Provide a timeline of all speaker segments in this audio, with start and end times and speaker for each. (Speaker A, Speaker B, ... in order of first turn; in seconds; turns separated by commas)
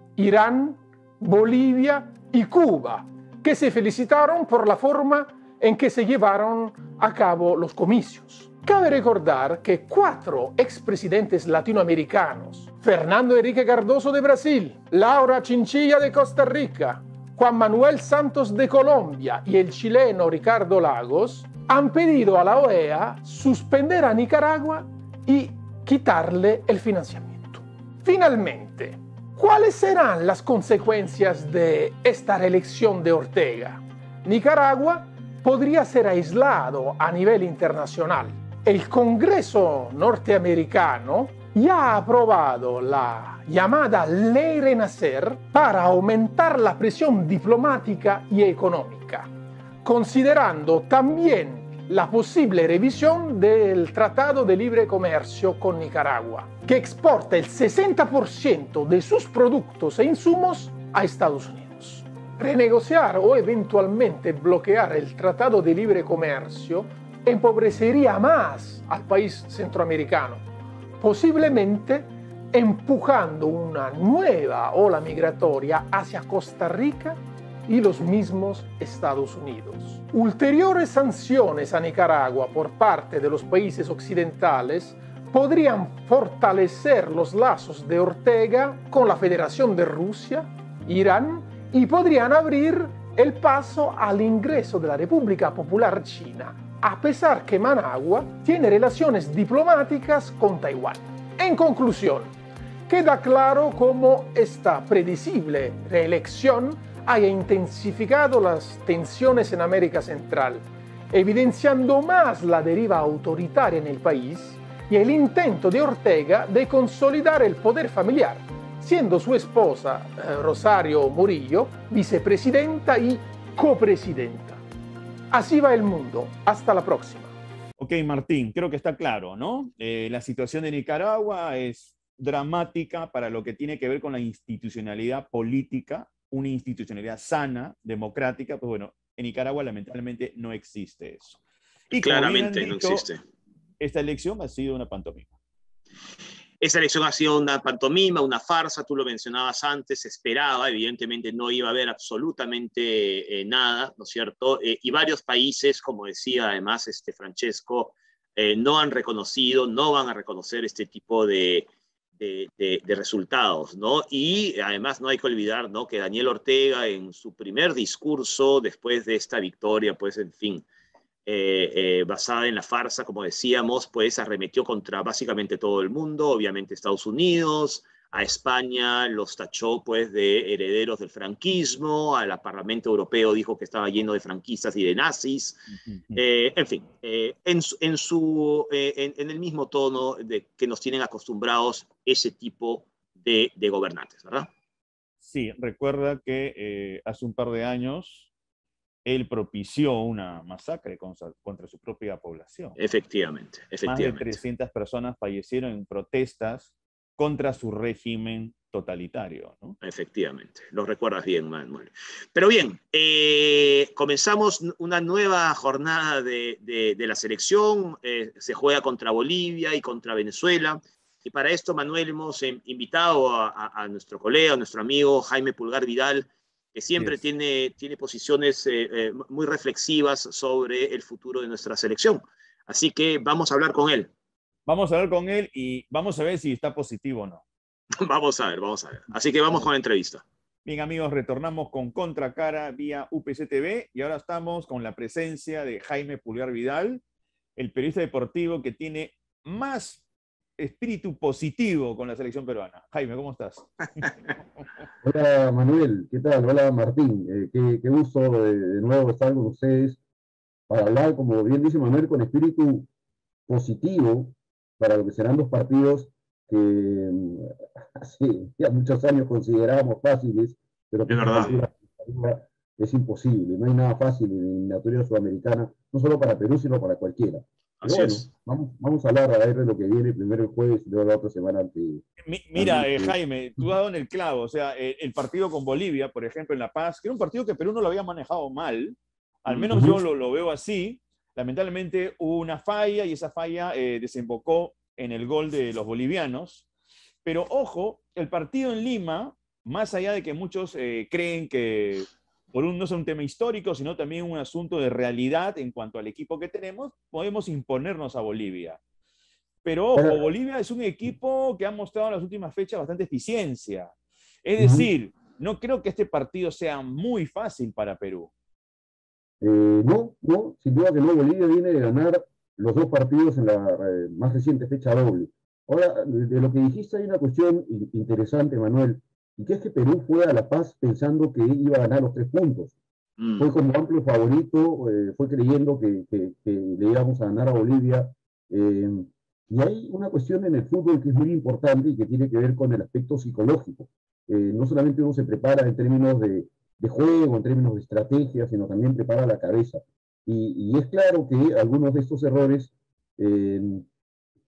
Speaker A: 0.1-49.3, Speaker A: 49.8-70.4, Speaker A: 71.0-102.3, Speaker A: 102.9-124.6, Speaker A: 125.3-127.3, Speaker B: 127.8-141.4, Speaker B: 141.9-143.1, Speaker C: 142.0-143.2, Speaker B: 143.8-145.3, Speaker C: 146.6-161.7, Speaker C: 162.2-170.6, Speaker C: 171.2-185.6, Speaker B: 185.7-186.2, Speaker C: 186.2-194.5, Speaker B: 195.2-198.3, Speaker B: 199.0-202.8, Speaker C: 202.8-204.4, Speaker B: 203.8-209.8, Speaker C: 209.8-234.1, Speaker B: 234.7-237.4, Speaker C: 238.0-240.2, Speaker B: 240.7-247.0, Speaker B: 247.6-250.0, Speaker B: 250.6-254.1, Speaker D: 255.0-260.0, Speaker D: 260.7-262.9, Speaker D: 263.5-282.0, Speaker C: 271.1-271.6, Speaker C: 277.8-278.3, Speaker B: 282.2-296.6, Speaker D: 282.6-283.7, Speaker D: 289.5-290.0, Speaker B: 297.2-308.8, Speaker B: 309.6-313.9, Speaker D: 309.9-310.2, Speaker B: 314.4-318.3, Speaker D: 314.6-314.9, Speaker D: 319.4-332.8, Speaker C: 333.2-333.5, Speaker D: 333.4-353.8